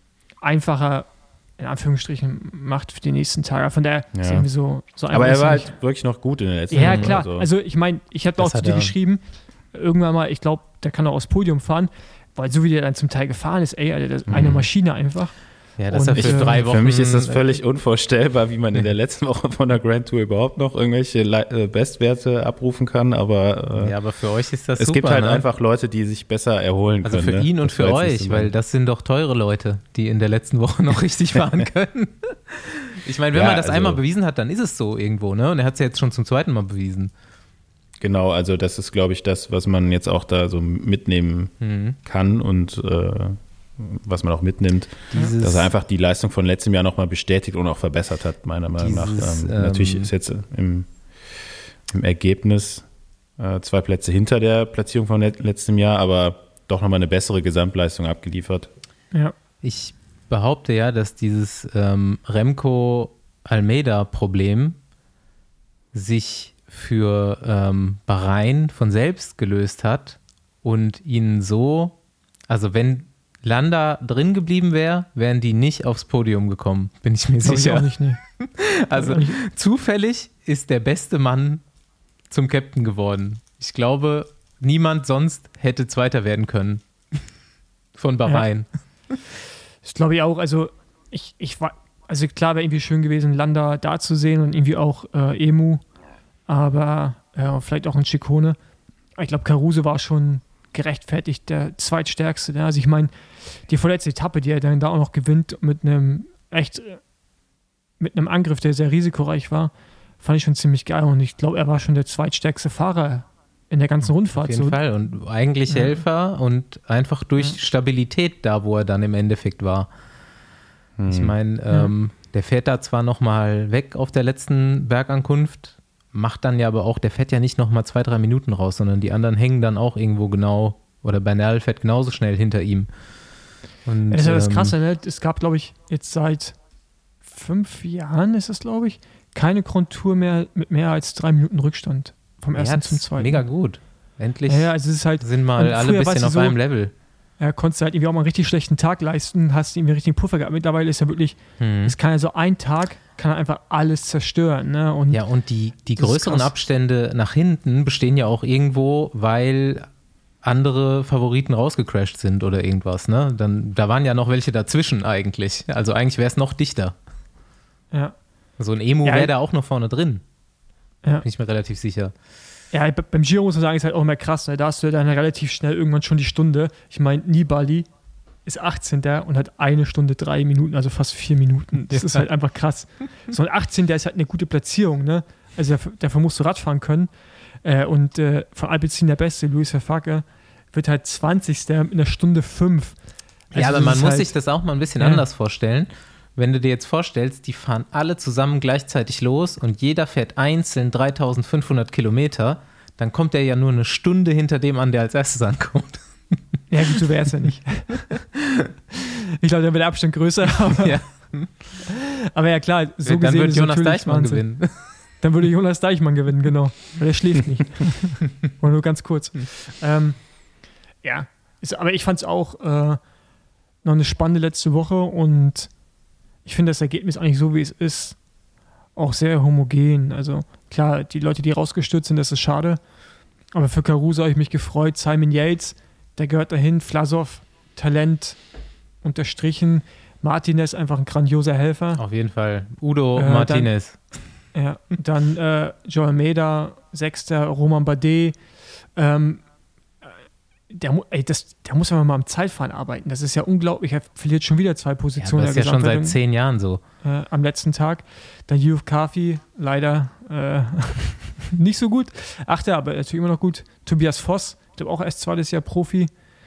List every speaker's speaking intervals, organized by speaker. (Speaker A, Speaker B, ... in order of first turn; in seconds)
Speaker A: 0.4-5.8, 6.7-16.7, 77.4-78.2, 78.9-79.4, 89.8-95.8, 96.5-98.6, 99.2-107.0, 108.0-114.8, 115.7-116.0, 134.1-136.6, 137.2-143.5, 144.5-146.6, 147.4-155.2, 155.9-156.5, 167.9-168.2, 169.0-169.3, 172.7-177.9, 178.4-194.3, 195.0-195.2, 206.7-208.2, 209.4-211.6, 212.3-220.4, 221.0-223.0, 223.8-225.8, 226.4-228.2, 228.9-232.8, 233.5-238.5, 239.0-242.0, 243.2-243.7, 244.4-249.4, 250.7-256.2, 257.0-266.2
Speaker B: 4.1-4.5, 5.1-7.5, 14.3-14.6, 16.1-24.0, 24.8-28.5, 33.3-34.0, 38.0-58.7, 121.0-121.4
Speaker C: 6.8-7.2, 8.4-8.9, 14.3-14.7, 15.8-17.5, 23.8-25.4, 27.0-37.1, 41.6-42.0, 45.1-45.7, 48.8-50.1, 59.6-64.8, 65.9-72.0, 72.5-81.6, 82.3-86.8, 88.0-88.7, 114.3-119.9, 121.1-132.9, 133.8-134.8, 142.5-146.9, 151.6-151.9, 155.1-159.9, 160.4-166.9, 168.6-170.2, 171.2-172.1, 181.9-182.2, 193.5-206.4, 210.8-211.7, 213.0-214.9, 242.0-244.2, 255.2-256.8